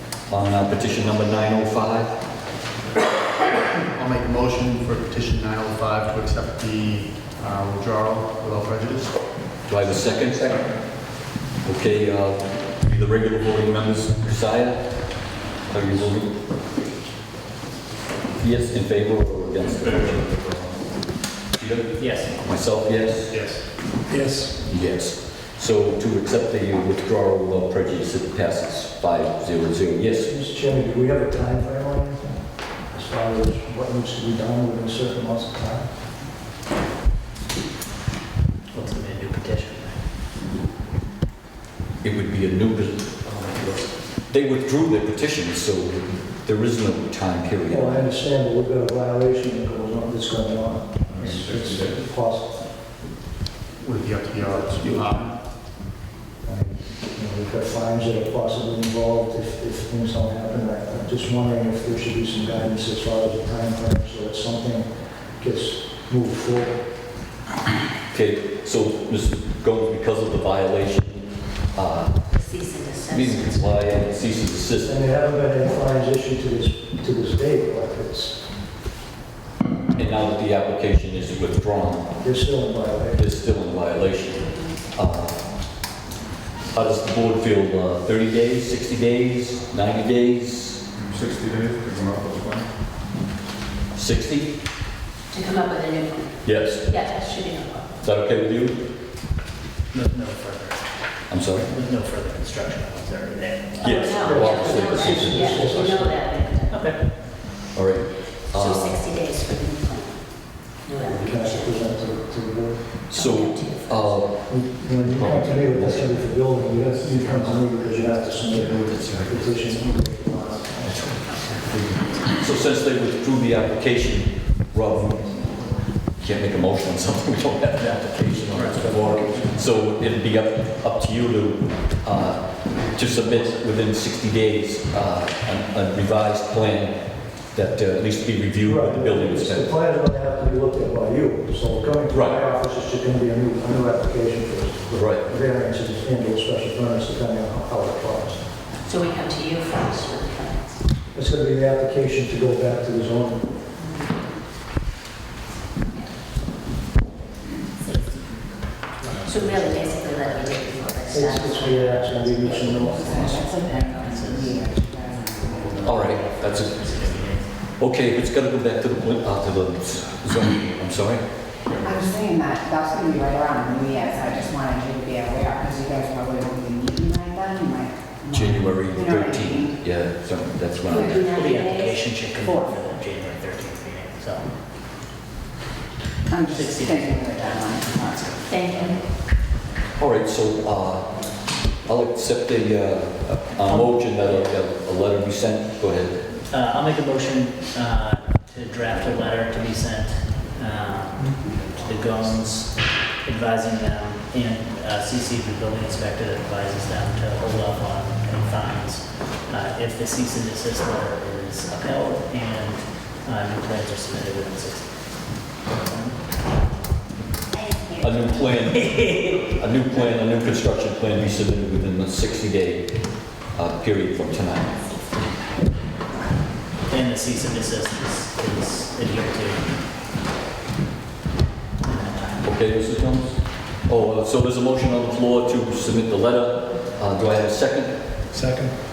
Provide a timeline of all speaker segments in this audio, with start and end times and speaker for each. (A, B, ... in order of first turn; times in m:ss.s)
0:00.3-0:02.1 A
0:03.9-0:09.1 B
0:09.7-0:10.7 A
0:11.6-0:14.8 A
0:15.6-0:16.4 A
0:18.4-0:20.6 A
0:21.6-0:23.3 A
0:22.0-0:22.3 C
0:23.3-0:23.6 B
0:24.6-0:30.3 A
0:30.2-0:35.9 D
0:38.7-0:40.0 C
0:42.0-0:48.0 A
0:47.7-0:52.6 D
0:51.1-0:52.0 E
0:53.8-0:55.4 B
0:56.4-1:06.8 D
1:08.1-1:12.2 A
1:12.3-1:14.1 F
1:13.1-1:14.9 A
1:14.8-1:18.4 D
1:20.0-1:22.2 A
1:22.2-1:23.2 D
1:23.1-1:25.4 A
1:26.7-1:30.8 A
1:31.1-1:32.7 E
1:33.9-1:34.5 A
1:35.3-1:38.0 F
1:36.4-1:36.9 A
1:38.0-1:38.8 A
1:39.9-1:40.8 C
1:41.3-1:41.7 A
1:41.6-1:43.8 C
1:43.8-1:45.8 A
1:43.8-1:46.8 F
1:43.9-1:46.2 D
1:46.7-1:47.0 C
1:47.7-1:49.0 A
1:48.5-1:50.2 F
1:50.8-1:51.8 F
1:50.9-1:52.8 D
1:53.1-1:54.3 A
1:53.1-1:54.3 F
1:54.4-2:01.1 D
1:55.0-1:56.3 A
1:56.8-1:57.3 E
1:58.5-1:58.8 E
1:58.8-1:59.8 A
2:00.8-2:05.4 A
2:06.2-2:19.7 A
2:08.5-2:08.8 C
2:08.6-2:09.6 D
2:18.6-2:28.4 D
2:22.1-2:22.4 A
2:24.9-2:25.2 A
2:28.8-2:30.8 F
2:31.1-2:33.5 D
2:37.8-2:38.3 F
2:39.1-2:42.5 F
2:39.2-2:40.1 E
2:41.1-2:43.4 D
2:42.2-2:47.5 C
2:42.5-2:46.0 G
2:45.8-2:46.8 A
2:47.8-2:51.2 A
2:51.8-2:59.8 G
2:58.3-3:01.3 A
3:00.9-3:02.0 F
3:01.2-3:04.5 C
3:02.4-3:02.7 G
3:06.3-3:08.3 G
3:06.5-3:09.1 C
3:08.4-3:09.0 F
3:10.0-3:11.1 A
3:11.8-3:16.2 A
3:13.6-3:14.5 C
3:16.5-3:35.0 C
3:35.7-3:36.2 C
3:37.5-3:38.0 G
3:38.0-3:42.9 A
3:38.4-3:39.5 C
3:43.5-3:44.8 A
3:46.9-3:49.7 C
3:51.8-3:52.4 C
3:52.4-3:58.0 A
3:58.3-3:58.7 D